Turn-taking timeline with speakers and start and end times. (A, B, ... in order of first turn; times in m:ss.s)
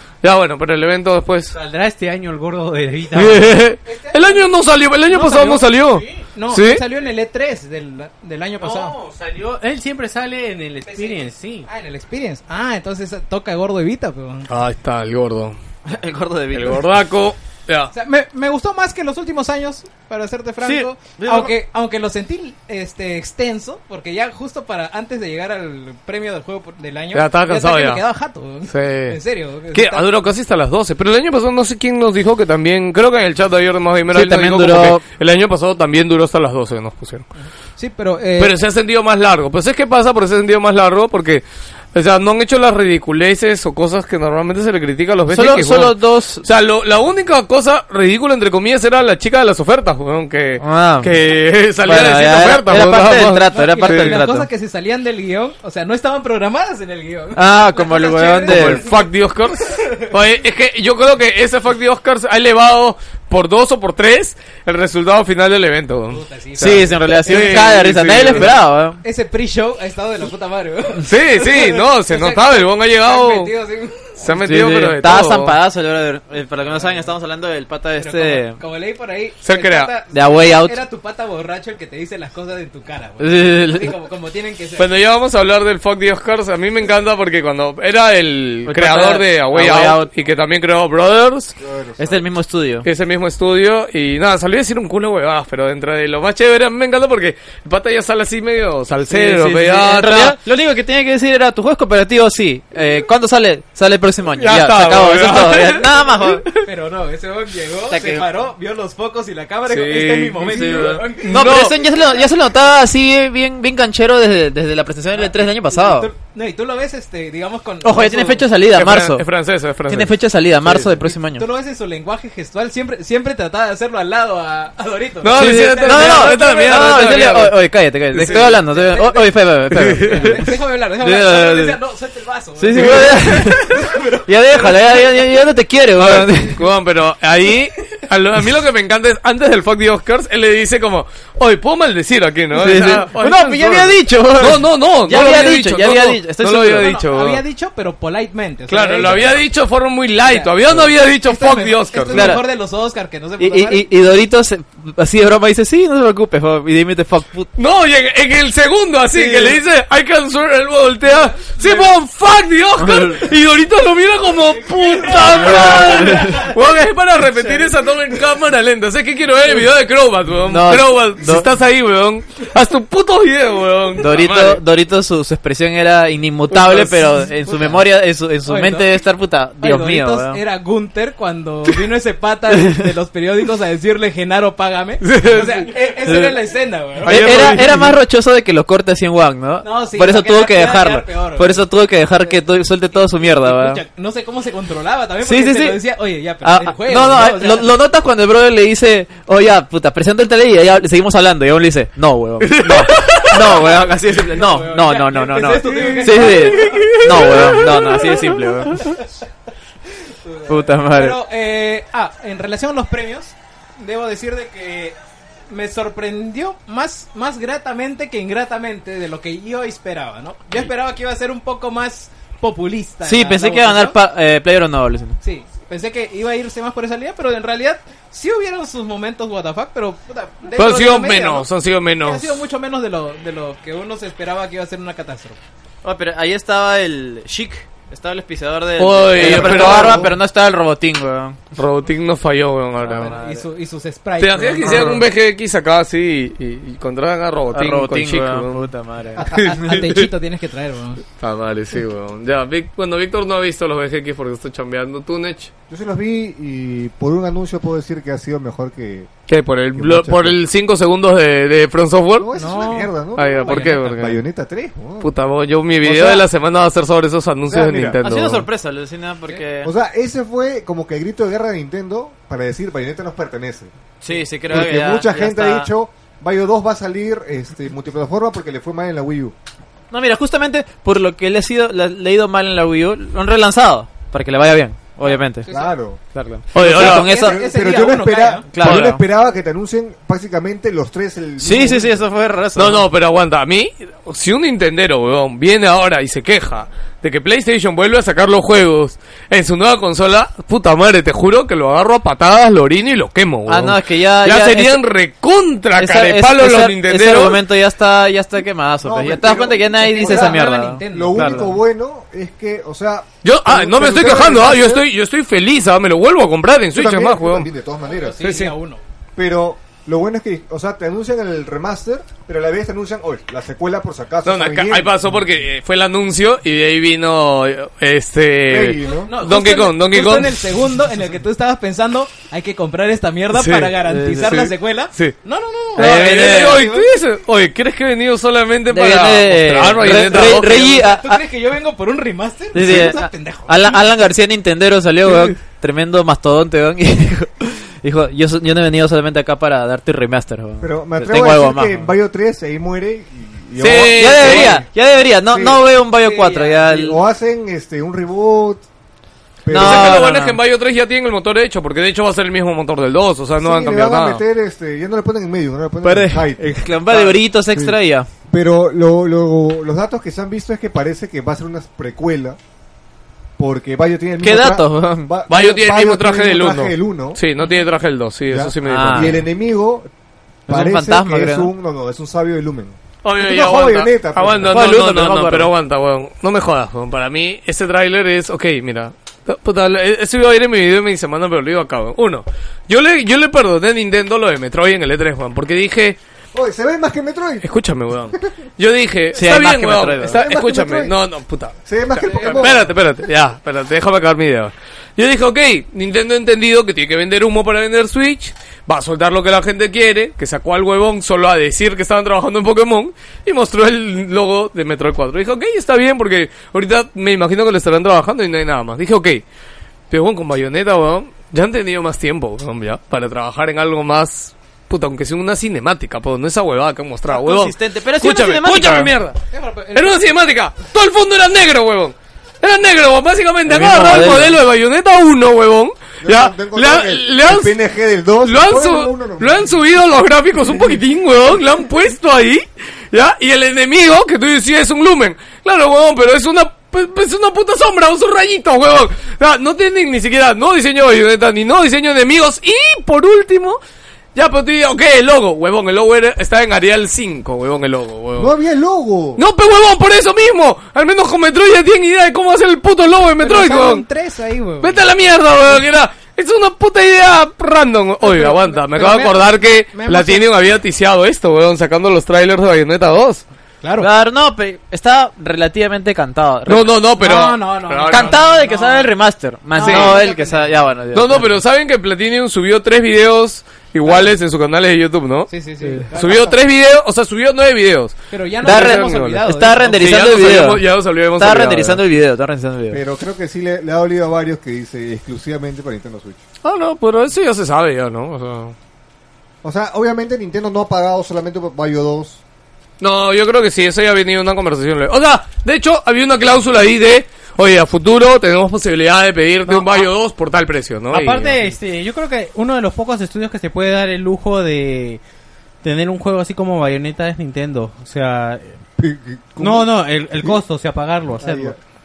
0:00.2-0:01.5 A
0:01.5-0:03.6 B
0:03.1-0:06.8 A
0:03.8-0:04.5 C
0:05.1-0:09.0 C
0:08.6-0:11.7 B
0:10.8-0:14.5 C
0:14.5-0:15.6 A
0:15.8-0:16.9 D
0:16.5-0:17.9 A
0:17.9-0:30.1 C
0:20.6-0:21.5 D
0:27.1-0:28.0 A
0:28.6-0:29.2 A
0:29.7-0:37.3 A
0:34.1-0:35.0 D
0:37.4-0:38.5 C
0:38.4-0:54.2 A
0:45.3-0:46.4 D
0:50.6-0:51.1 D
0:51.8-0:54.5 D
0:53.0-0:59.1 C
0:57.3-0:58.8 D
0:58.5-1:08.5 A
0:59.7-1:00.1 C
1:06.1-1:14.1 C
1:06.6-1:09.0 D
1:11.0-1:13.5 A
1:14.2-1:15.5 A
1:14.3-1:18.6 D
1:16.6-1:17.1 C
1:18.0-1:24.9 C
1:19.4-1:19.9 A
1:20.1-1:20.8 D
1:23.2-1:23.9 D
1:24.8-1:31.5 A
1:28.6-1:30.1 D
1:31.6-1:32.2 E
1:32.0-1:32.9 D
1:32.8-1:40.4 A
1:39.1-1:46.5 D
1:44.4-1:46.1 A
1:46.5-1:51.7 C
1:47.9-1:48.2 D
1:49.7-1:51.7 A
1:50.5-1:56.1 D
1:55.2-1:58.4 C
1:57.8-1:59.3 D
1:58.7-2:00.1 A
1:59.9-2:01.5 D
2:00.9-2:07.4 C
2:05.2-2:07.5 A
2:05.3-2:11.8 D
2:08.1-2:08.6 A
2:08.1-2:15.4 C
2:09.7-2:10.4 A
2:12.6-2:16.6 D
2:12.7-2:13.3 A
2:16.0-2:27.4 A
2:22.5-2:26.9 D
2:25.1-2:25.5 C
2:26.8-2:29.4 C
2:28.7-2:32.4 A
2:30.2-2:33.8 C
2:32.1-2:32.4 D
2:33.4-2:37.5 D
2:37.6-2:54.6 A
2:39.1-2:39.6 C
2:41.5-2:41.9 C
2:42.8-2:43.3 D
2:44.8-2:46.5 C
2:45.3-2:46.5 D
2:50.5-2:51.5 D
2:54.0-3:00.4 D
2:56.5-2:57.9 C
2:58.4-2:59.0 C
2:59.6-3:07.8 C
3:05.0-3:05.7 A
3:06.0-3:06.4 D
3:07.0-3:08.0 A
3:07.0-3:13.8 D
3:09.6-3:11.6 C
3:12.2-3:17.7 C
3:15.2-3:15.8 D
3:16.4-3:29.0 D
3:22.4-3:23.6 A
3:23.5-3:27.8 C
3:25.7-3:28.2 A
3:28.3-3:29.1 C
3:30.1-3:35.0 C
3:30.5-3:31.2 D
3:35.5-3:44.0 C
3:43.0-3:45.2 D
3:45.2-3:51.4 C
3:50.6-3:52.4 A
3:52.0-3:55.4 C
3:55.8-4:01.4 D
3:58.8-4:00.1 A
3:59.2-4:00.1 E
3:59.4-4:00.0 C
4:01.5-4:03.1 A
4:02.8-4:03.4 D
4:02.8-4:05.0 C
4:04.2-4:10.1 A
4:04.6-4:05.0 D
4:07.5-4:09.2 D
4:09.2-4:11.0 C
4:11.2-4:15.5 A
4:15.7-4:19.1 E
4:19.3-4:22.3 A
4:19.7-4:20.4 E
4:22.2-4:25.1 E
4:22.3-4:24.0 C
4:23.1-4:24.2 A
4:25.0-4:28.4 A
4:25.8-4:26.2 E
4:27.4-4:28.0 E
4:28.0-4:29.7 D
4:29.6-4:33.7 E
4:34.0-4:35.7 D
4:34.5-4:39.3 E
4:39.9-4:45.5 D
4:45.0-4:45.8 C
4:45.5-4:46.0 E
4:46.1-4:47.4 D
4:46.5-4:47.1 A
4:46.5-4:52.0 E
4:46.6-4:48.5 C
4:48.5-4:49.0 D
4:48.6-4:48.9 A
4:51.4-4:52.8 D
4:52.6-5:07.4 A
5:03.5-5:04.8 D
5:05.8-5:11.5 D
5:08.8-5:14.9 E
5:09.7-5:11.6 C
5:13.2-5:17.5 A
5:16.7-5:18.2 E
5:17.9-5:18.8 C
5:18.2-5:18.5 A
5:19.2-5:25.0 E
5:24.2-5:30.5 A
5:28.5-5:29.1 E
5:29.0-5:36.8 C
5:33.3-5:35.2 A
5:33.8-5:34.4 D
5:35.7-5:40.7 A
5:35.8-5:36.7 D
5:38.7-5:41.2 D
5:40.0-5:43.8 C
5:42.5-5:51.9 D
5:42.6-5:42.9 E
5:50.6-5:54.7 E
5:53.6-5:54.6 A
5:53.8-5:57.0 D
5:55.3-5:55.6 E
5:55.9-5:56.7 C
5:56.7-5:58.6 E
5:59.4-6:00.1 E
5:59.5-6:00.4 D
5:59.5-6:04.2 A
6:03.4-6:07.8 E
6:05.8-6:08.1 D
6:08.3-6:12.4 E
6:13.4-6:17.2 E
6:14.2-6:15.1 D
6:15.3-6:19.2 A
6:18.3-6:19.9 E
6:18.6-6:19.2 D
6:20.5-6:21.5 D
6:20.5-6:24.6 E
6:23.0-6:36.0 A
6:24.4-6:25.5 D
6:36.3-6:37.5 E
6:37.4-6:59.2 A
6:39.1-6:40.2 D
6:40.0-6:40.9 E
6:41.6-6:43.1 E
6:42.0-6:42.6 C
6:59.9-7:09.2 A
7:07.1-7:08.9 D
7:09.3-7:10.1 C
7:09.7-7:17.6 A
7:13.4-7:14.4 D
7:16.0-7:19.5 E
7:18.2-7:33.6 A
7:34.1-7:38.3 A
7:38.2-7:39.2 E
7:39.2-7:43.8 A
7:43.2-7:44.8 C
7:44.6-7:53.2 A
7:48.0-7:50.2 C
7:53.6-7:53.9 C
7:53.8-7:56.7 D
7:56.5-7:58.2 A
7:57.0-7:58.9 C
7:57.9-8:01.3 D
7:59.5-8:00.6 C
7:59.6-8:00.0 A
8:00.9-8:05.3 A
8:05.3-8:06.4 C
8:05.9-8:11.8 A
8:08.1-8:09.8 C
8:08.4-8:10.6 D
8:11.2-8:12.8 D
8:12.7-8:16.2 E
8:16.4-8:18.5 A
8:19.4-8:22.2 E
8:22.8-8:31.4 A
8:30.9-8:35.0 B
8:35.6-8:38.6 B
8:38.8-8:40.4 E
8:39.4-8:41.6 B
8:41.2-8:41.6 E